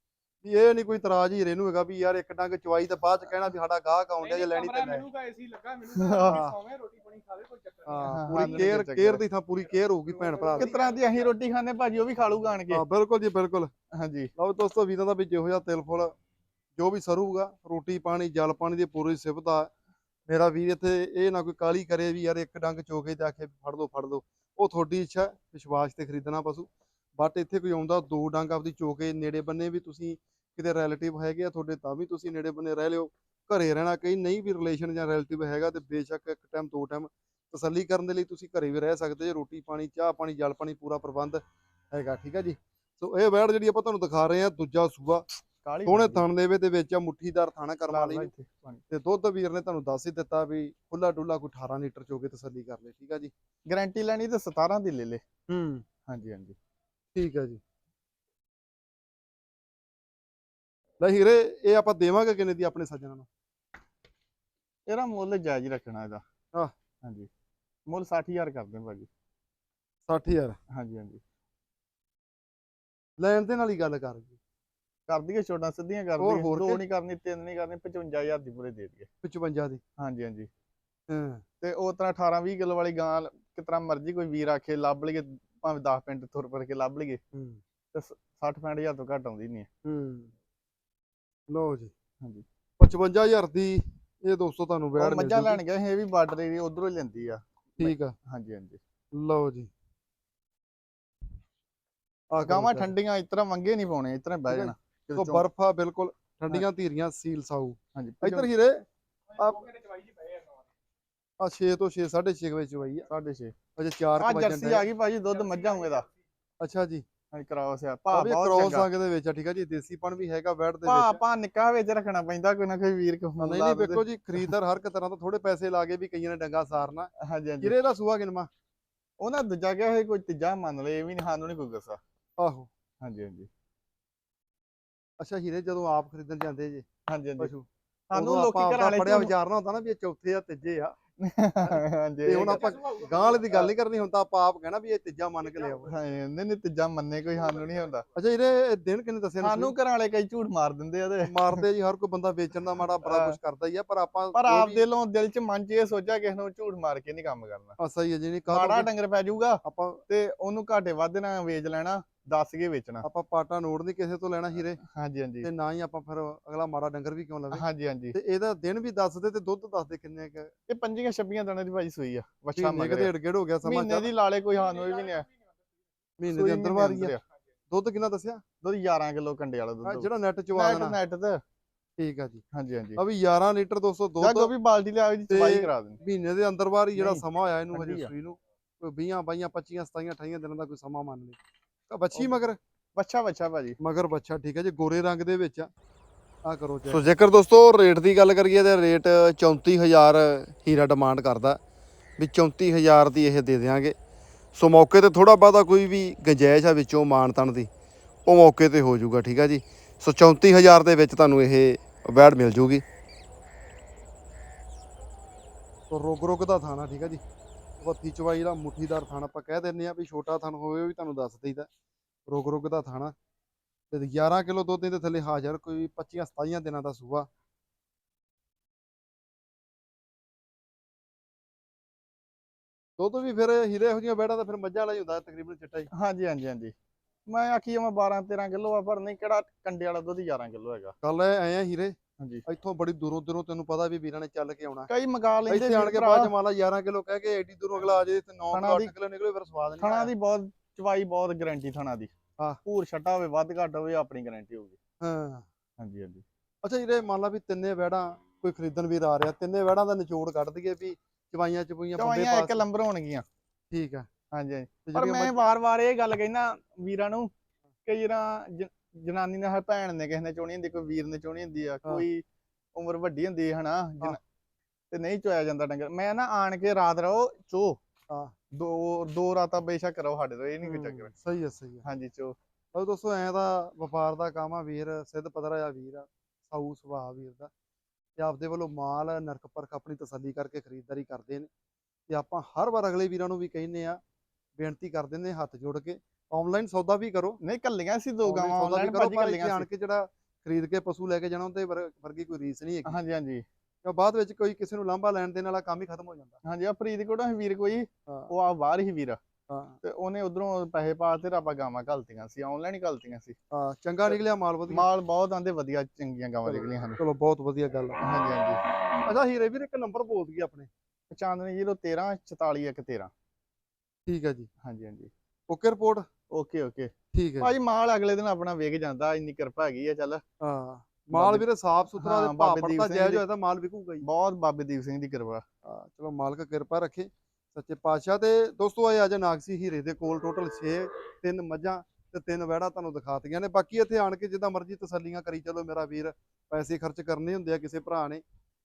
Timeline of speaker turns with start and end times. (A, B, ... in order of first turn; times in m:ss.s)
0:00.4-0:05.1 A
0:04.2-0:08.2 B
0:05.9-0:06.4 C
0:06.3-0:06.6 A
0:07.8-0:10.7 A
0:08.1-0:09.2 C
0:10.2-0:10.7 B
0:10.6-0:12.8 C
0:12.7-0:13.7 A
0:13.9-0:14.3 C
0:14.4-0:16.1 A
0:16.7-0:19.7 A
0:20.3-0:45.2 A
0:45.6-0:46.2 C
0:45.8-0:48.3 A
0:47.9-0:48.8 C
0:48.9-0:53.3 A
0:53.7-0:55.2 C
0:55.5-0:55.8 A
0:56.1-0:56.6 C
0:57.1-0:57.6 A
1:01.0-1:03.3 A
1:04.9-1:06.2 C
1:07.0-1:07.3 C
1:07.9-1:09.1 C
1:10.1-1:10.6 A
1:10.7-1:11.2 C
1:13.2-1:14.4 A
1:15.1-1:19.1 C
1:16.2-1:16.8 A
1:19.2-1:19.8 A
1:20.0-1:20.5 C
1:21.1-1:21.4 A
1:21.6-1:27.2 C
1:27.3-1:27.6 A
1:27.9-1:29.7 C
1:29.8-1:30.3 A
1:31.5-1:31.9 A
1:32.8-1:35.6 A
1:35.0-1:38.8 C
1:37.8-1:38.1 A
1:39.1-1:39.7 A
1:42.3-1:42.9 A
1:42.4-1:45.4 C
1:44.5-1:48.8 A
1:48.0-1:48.5 C
1:49.4-1:49.7 A
1:51.4-1:53.1 A
1:53.1-1:53.6 C
1:53.8-1:54.8 A
1:54.2-1:56.0 C
1:56.6-1:57.0 A
1:57.3-1:58.9 C
1:58.1-2:01.2 A
2:00.8-2:04.5 C
2:03.4-2:07.1 A
2:07.2-2:07.7 C
2:07.6-2:08.5 A
2:09.2-2:12.0 C
2:12.4-2:12.7 A
2:13.0-2:13.5 C
2:15.2-2:16.8 A
2:17.1-2:17.5 C
2:17.4-2:21.0 A
2:18.1-2:19.3 C
2:21.2-2:22.8 C
2:21.6-2:25.9 A
2:25.8-2:28.0 C
2:28.1-2:29.7 A
2:29.4-2:31.6 C
2:31.2-2:34.8 A
2:33.0-2:33.4 C
2:34.3-2:37.8 C
2:37.8-2:38.9 A
2:38.5-2:43.0 C
2:39.6-2:40.0 A
2:43.0-2:44.8 A
2:44.8-2:45.5 C
2:45.4-2:50.5 A
2:47.5-2:48.2 C
2:50.7-2:53.1 C
2:52.6-2:54.1 A
2:53.6-2:55.3 C
2:56.2-2:57.1 A
2:56.3-2:57.2 C
2:57.7-2:58.4 A
2:58.6-3:01.4 C
2:59.8-3:01.0 A
3:02.0-3:02.4 A
3:02.5-3:03.0 C
3:03.0-3:04.5 A
3:04.2-3:06.0 C
3:05.3-3:12.6 A
3:06.9-3:08.1 C
3:13.0-3:13.8 C
3:13.8-3:15.7 A
3:16.4-3:21.6 A
3:22.2-3:24.0 A
3:24.5-3:27.7 A
3:28.2-3:32.8 A
3:35.9-3:37.2 A
3:37.8-3:41.7 A
3:42.3-3:43.1 A
3:43.9-3:47.3 A
3:53.0-3:55.9 A
3:55.9-3:56.7 C
3:57.3-4:01.0 C
4:01.0-4:04.9 A
4:02.2-4:02.4 C
4:04.9-4:06.3 C
4:05.5-4:10.1 A
4:08.5-4:08.9 C
4:09.8-4:12.1 C
4:12.6-4:14.8 C
4:15.0-4:15.4 A
4:15.8-4:16.2 C
4:16.6-4:22.6 A
4:22.0-4:23.2 C
4:23.7-4:24.1 A
4:24.3-4:27.3 C
4:24.8-4:25.4 A
4:27.8-4:32.2 C
4:32.7-4:34.2 C
4:34.9-4:37.8 C
4:38.5-4:41.1 C
4:40.6-4:41.8 A
4:41.8-4:42.4 C
4:42.7-4:47.5 A
4:48.2-4:51.5 A
4:52.1-4:54.0 A
4:54.6-4:57.4 A
4:57.4-4:59.7 C
4:58.2-5:03.0 A
5:02.8-5:03.4 C
5:03.8-5:06.4 A
5:06.4-5:09.2 C
5:09.5-5:09.8 A
5:09.8-5:13.4 C
5:13.5-5:14.8 A
5:14.7-5:17.0 C
5:16.4-5:18.0 A
5:18.0-5:18.6 C
5:19.0-5:20.7 A
5:21.1-5:23.1 C
5:24.0-5:24.5 A
5:24.6-5:25.1 C
5:25.5-5:26.0 A
5:26.3-5:30.2 C
5:27.1-5:27.5 A
5:30.4-5:34.0 A
5:31.1-5:31.4 C
5:32.0-5:33.2 C
5:34.0-5:35.4 C
5:35.6-5:48.2 A